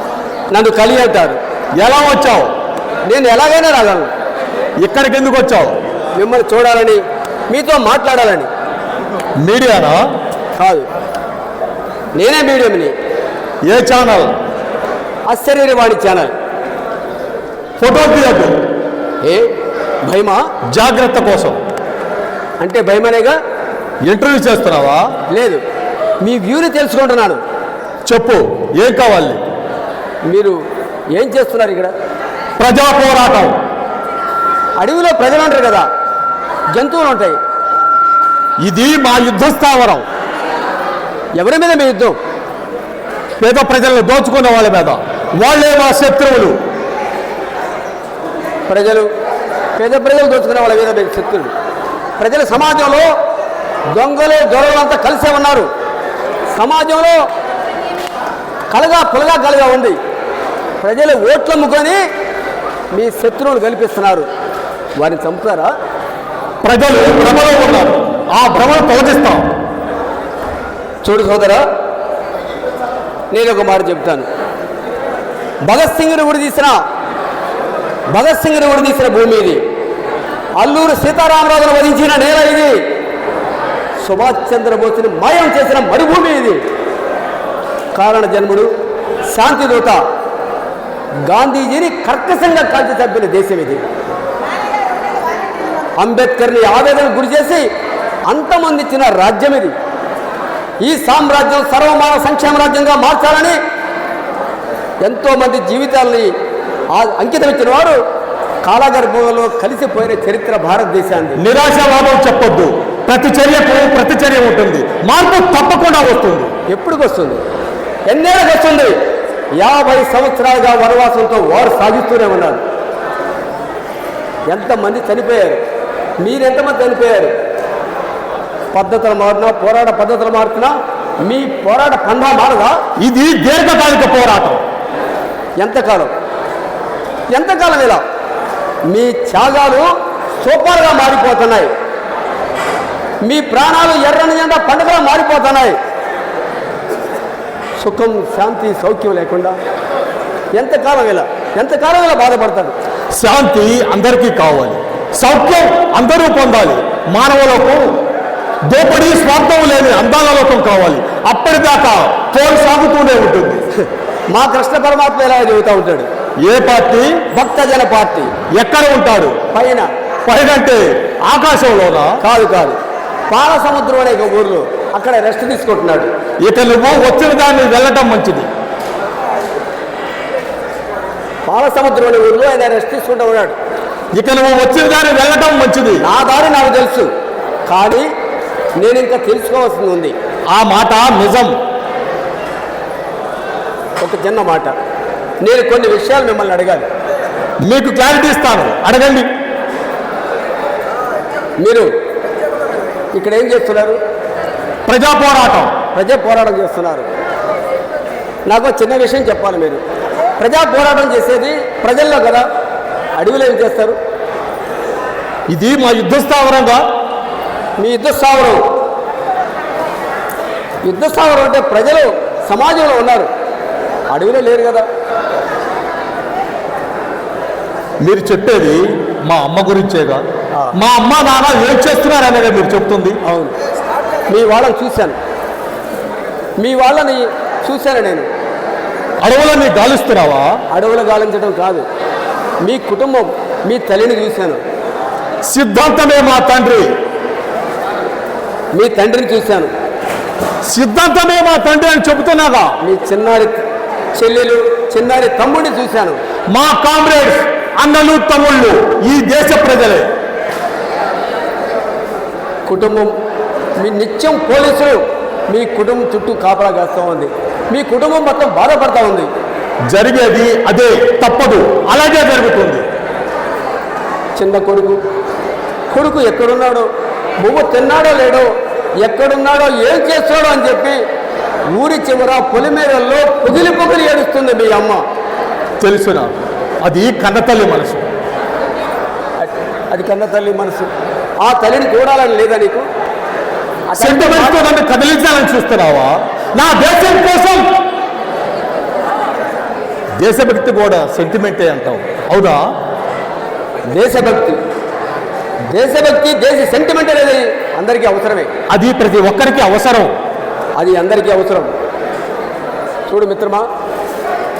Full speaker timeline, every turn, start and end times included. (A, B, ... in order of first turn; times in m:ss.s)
0:00.5-0:01.4 A
0:01.8-0:02.5 B
0:03.1-0:04.1 A
0:04.8-0:05.8 B
0:06.2-0:08.5 A
0:09.4-0:10.0 B
0:10.6-0:10.9 A
0:12.2-0:12.9 A
0:13.7-0:14.3 B
0:15.3-0:16.3 A
0:17.8-0:18.6 B
0:19.2-0:19.5 A
0:20.0-0:20.4 A
0:20.7-0:21.6 B
0:22.6-0:23.4 A
0:24.0-0:25.0 B
0:25.3-0:25.6 A
0:26.2-0:27.4 A
0:28.1-0:29.4 B
0:30.3-0:30.6 A
0:31.2-0:31.9 A
0:32.6-0:33.6 B
0:34.8-0:35.8 A
0:36.7-0:37.4 A
0:38.6-0:40.0 B
0:41.4-0:42.2 A
0:43.4-0:46.6 B
0:48.7-0:49.1 A
0:49.8-0:51.5 A
0:52.2-0:53.1 A
0:53.9-0:55.7 A
0:56.6-0:57.2 A
0:58.7-1:00.0 A
1:00.8-1:02.0 A
1:02.9-1:04.3 A
1:05.0-1:05.7 A
1:06.6-1:09.5 B
1:11.0-1:11.6 A
1:13.3-1:14.3 A
1:15.7-1:16.8 A
1:18.1-1:19.6 A
1:20.6-1:22.8 A
1:24.0-1:26.6 A
1:28.0-1:28.7 A
1:29.3-1:30.0 A
1:31.3-1:33.8 A
1:36.0-1:37.7 A
1:38.3-1:39.7 A
1:40.8-1:43.6 A
1:45.0-1:46.3 A
1:46.9-1:48.0 A
1:48.6-1:51.4 A
1:51.4-1:56.5 B
1:56.7-1:57.4 A
1:58.1-1:58.9 A
1:59.6-2:02.6 A
2:04.5-2:05.6 A
2:06.2-2:07.3 A
2:08.7-2:12.8 A
2:13.0-2:14.6 B
2:15.6-2:16.1 A
2:17.3-2:18.0 A
2:18.9-2:19.9 A
2:20.4-2:21.7 A
2:23.2-2:25.8 A
2:27.8-2:29.6 A
2:30.6-2:32.8 A
2:33.2-2:37.9 B
2:38.7-2:43.6 B
2:44.3-2:46.1 A
2:46.4-2:47.2 B
2:47.3-2:48.3 A
2:48.5-2:49.4 B
2:49.5-2:49.9 A
2:50.3-2:52.2 B
2:52.2-2:52.8 A
2:53.3-2:56.1 A
2:56.4-2:58.5 B
3:01.5-3:03.6 A
3:04.2-3:06.0 B
3:06.0-3:07.1 A
3:07.7-3:08.1 A
3:08.8-3:10.2 A
3:10.5-3:11.5 B
3:14.0-3:14.7 A
3:15.4-3:16.9 A
3:17.7-3:19.3 B
3:21.6-3:21.9 A
3:23.2-3:24.0 A
3:24.9-3:25.8 B
3:25.9-3:27.1 A
3:28.5-3:29.8 A
3:30.4-3:32.4 A
3:33.2-3:34.0 A
3:35.5-3:36.8 B
3:37.8-3:38.6 A
3:40.8-3:43.3 A
3:44.1-3:44.9 A
3:48.0-3:50.2 B
3:50.8-3:53.2 B
3:53.2-3:53.5 A
3:54.3-3:55.2 A
3:56.6-3:58.3 A
3:59.2-4:00.5 B
4:00.7-4:01.8 A
4:02.6-4:04.6 A
4:05.5-4:06.9 B
4:08.7-4:09.7 A
4:10.7-4:12.8 B
4:12.8-4:13.6 A
4:14.2-4:16.2 A
4:16.5-4:20.1 B
4:22.7-4:23.1 A
4:23.8-4:29.3 A
4:29.9-4:32.8 B
4:34.4-4:35.0 A
4:35.9-4:36.9 A
4:37.4-4:38.5 A
4:39.0-4:41.0 A
4:41.7-4:45.0 A
4:45.8-4:46.3 B
4:46.8-4:48.1 B
4:49.4-4:50.9 A
4:51.4-4:52.9 A
4:53.9-4:54.6 A
4:54.0-4:57.6 B
5:00.2-5:02.6 B
5:03.9-5:04.6 A
5:05.7-5:08.5 A
5:08.7-5:10.1 B
5:10.8-5:11.7 A
5:13.1-5:13.7 A